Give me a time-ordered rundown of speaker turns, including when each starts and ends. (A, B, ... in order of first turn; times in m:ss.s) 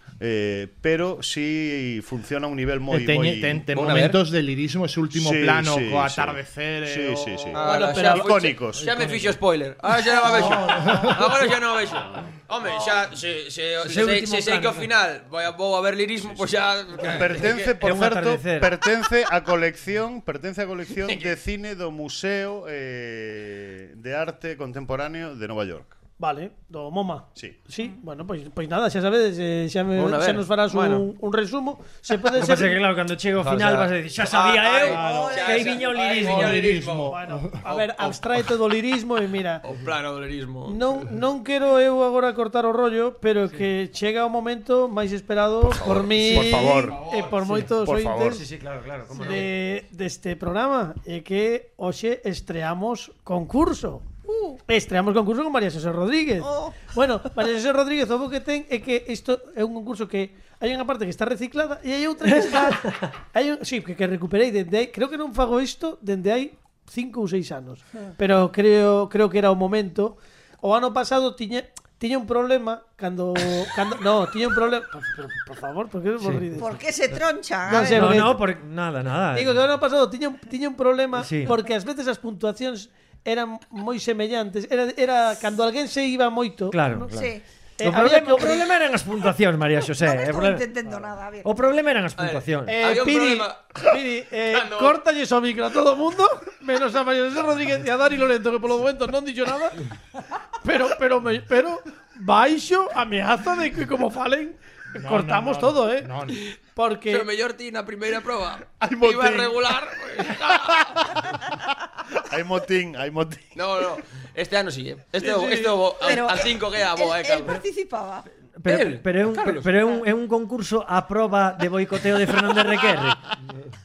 0:00.2-0:03.8 A
0:02.9-0:07.6 B
0:03.7-0:04.2 C
0:05.1-0:09.1 A
0:07.5-0:17.7 C
0:07.6-0:08.3 D
0:10.3-0:10.7 E
0:10.6-0:11.2 B
0:13.8-0:14.9 E
0:16.2-0:25.9 A
0:17.0-0:18.8 E
0:21.0-0:21.3 C
0:26.2-0:32.8 D
0:29.9-0:31.1 C
0:32.3-0:36.8 E
0:33.4-0:38.4 C
0:34.9-0:35.4 B
0:35.0-0:35.7 F
0:36.2-0:37.5 B
0:37.1-0:39.6 D
0:39.6-0:40.8 C
0:40.6-0:48.4 D
0:45.6-0:47.0 A
0:46.2-0:49.5 E
0:47.8-0:48.4 A
0:49.1-0:54.1 D
0:54.3-0:54.5 F
0:54.7-1:16.8 D
0:56.4-0:56.8 F
1:16.5-1:18.2 F
1:17.6-1:18.4 D
1:17.9-1:19.6 E
1:19.3-1:27.1 D
1:21.2-1:21.5 E
1:26.7-1:30.6 E
1:27.1-1:27.4 F
1:27.8-1:28.6 D
1:30.0-1:31.5 F
1:31.4-1:32.8 E
1:32.2-1:33.9 C
1:32.7-1:39.8 D
1:34.5-1:35.0 C
1:40.6-1:47.3 D
1:45.0-1:46.4 B
1:47.1-1:51.0 C
1:48.8-1:51.4 A
1:52.1-1:53.8 A
1:53.6-1:57.6 C
1:55.2-1:56.2 D
1:56.0-1:58.2 F
1:58.6-2:03.3 E
1:58.6-2:00.0 C